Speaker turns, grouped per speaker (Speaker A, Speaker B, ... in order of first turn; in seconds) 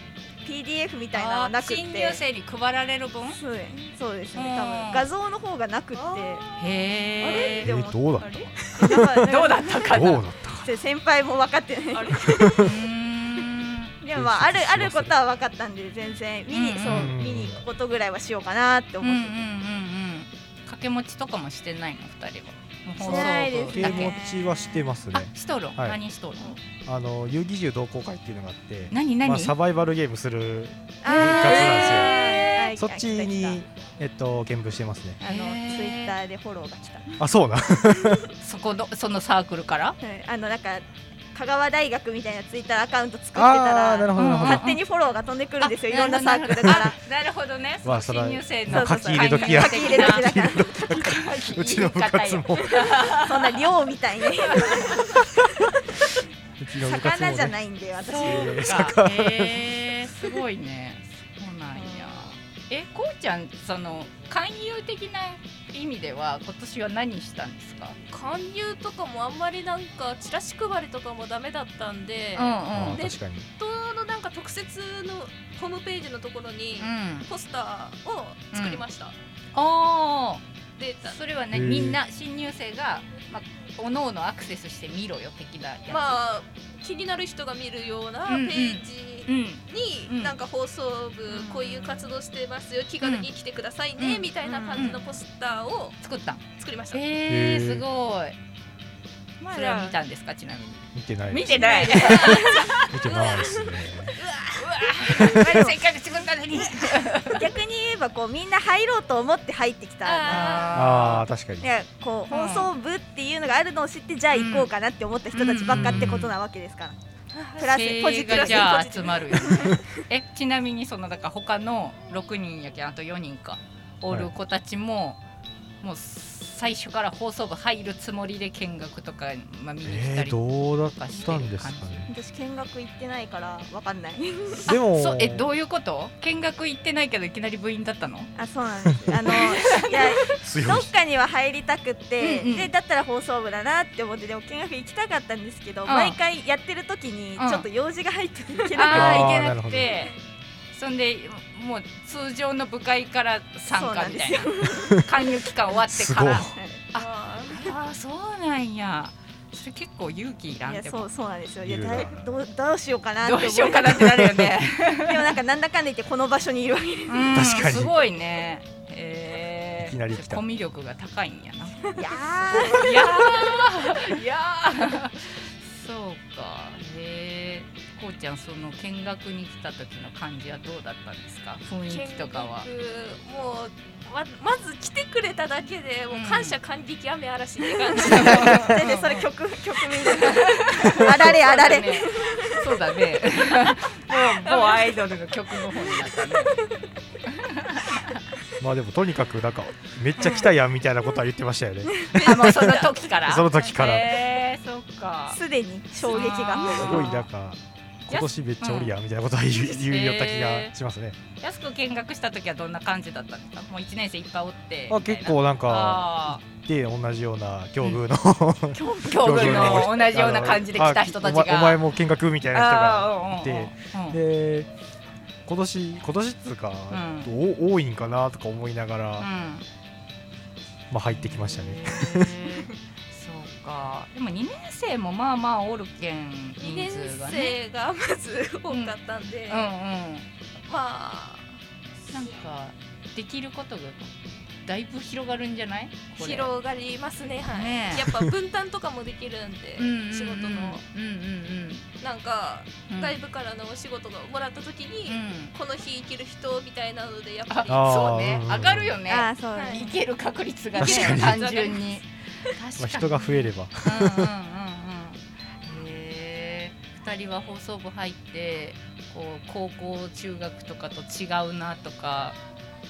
Speaker A: 0.4-2.2, 3.3-6.4, 7.2-12.7, 14.0-19.5, 23.0-24.4, 31.0-33.6, 35.2-37.1, 37.9-38.3, 40.0-46.9, 48.7-51.1, 53.0-56.1, 56.8-58.7, 61.8-62.2, 94.4-94.9, 99.6-99.9, 105.1-105.8, 106.6-110.7, 111.6-117.0, 117.6-119.7, 132.1-134.7, 138.3-149.4, 153.7-155.1, 156.5-156.8, 160.7-164.4, 164.9-167.4, 171.9-173.6, 188.0-192.7, 205.3-207.1, 259.1-259.9
Speaker B: 1.1-3.4, 4.3-5.1, 6.6-7.7, 8.8-10.2, 12.6-13.9, 16.5-17.1, 19.0-26.6, 28.9-29.5, 31.0-32.7, 35.2-36.1, 38.4-40.0, 44.1-44.8, 45.6-53.7, 54.2-55.3, 58.0-68.0, 72.3-73.0, 76.8-77.3, 78.5-78.8, 79.5-80.4, 81.0-86.2, 88.3-90.3, 91.3-91.9, 93.0-93.3, 94.0-95.0, 96.0-98.3, 99.4-102.9, 104.5-107.5, 110.2-111.3, 112.3-112.7, 114.3-114.7, 115.3-116.3, 117.6-125.2, 125.8-132.1, 134.7-138.3, 139.2-140.2, 142.2-142.7, 145.8-146.2, 147.4-147.7, 148.7-150.1, 150.7-161.1, 163.2-165.3, 167.1-182.7, 186.1-186.6, 187.9-189.3, 189.8-196.5, 197.2-198.2, 200.2-200.5, 202.2-205.4, 205.9-207.3, 208.1-208.9, 209.6-210.7, 211.4-216.4, 218.7-221.9, 222.5-224.2, 226.9-227.3, 229.2-229.6, 231.1-237.6, 239.5-240.3, 242.1-244.1, 244.6-246.5, 247.5-248.1, 249.8-251.8, 252.9-253.2, 255.1-255.5, 257.5-272.4
Speaker C: 5.9-6.6, 11.9-12.6, 68.1-79.1, 80.8-81.2, 85.9-96.0, 96.6-97.0, 99.6-99.9, 101.4-104.2, 110.0-110.8, 117.3-119.8, 156.9-157.7, 181.9-188.7, 194.1-195.1, 236.6-239.7, 240.7-241.5, 246.2-250.8, 252.0-258.2, 259.5-259.9, 260.8-262.0
Speaker D: 7.6-10.7, 12.2-12.7, 14.1-15.1, 16.8-17.6, 23.0-26.0, 26.8-35.2, 37.2-38.3, 43.3-44.7, 47.8-53.0, 56.6-57.5, 58.2-60.4, 72.7-73.5, 81.5-82.0, 97.3-97.8, 100.9-104.2, 110.7-111.7, 115.7-116.3, 129.8-132.1, 134.7-135.4, 140.4-140.9, 148.9-150.0, 155.8-156.6, 161.6-162.3, 167.3-167.9, 169.8-170.4, 198.6-204.1, 206.7-211.2, 214.9-224.7, 225.4-229.3, 230.9-232.4, 257.7-259.0, 260.8-261.4, 262.8-264.3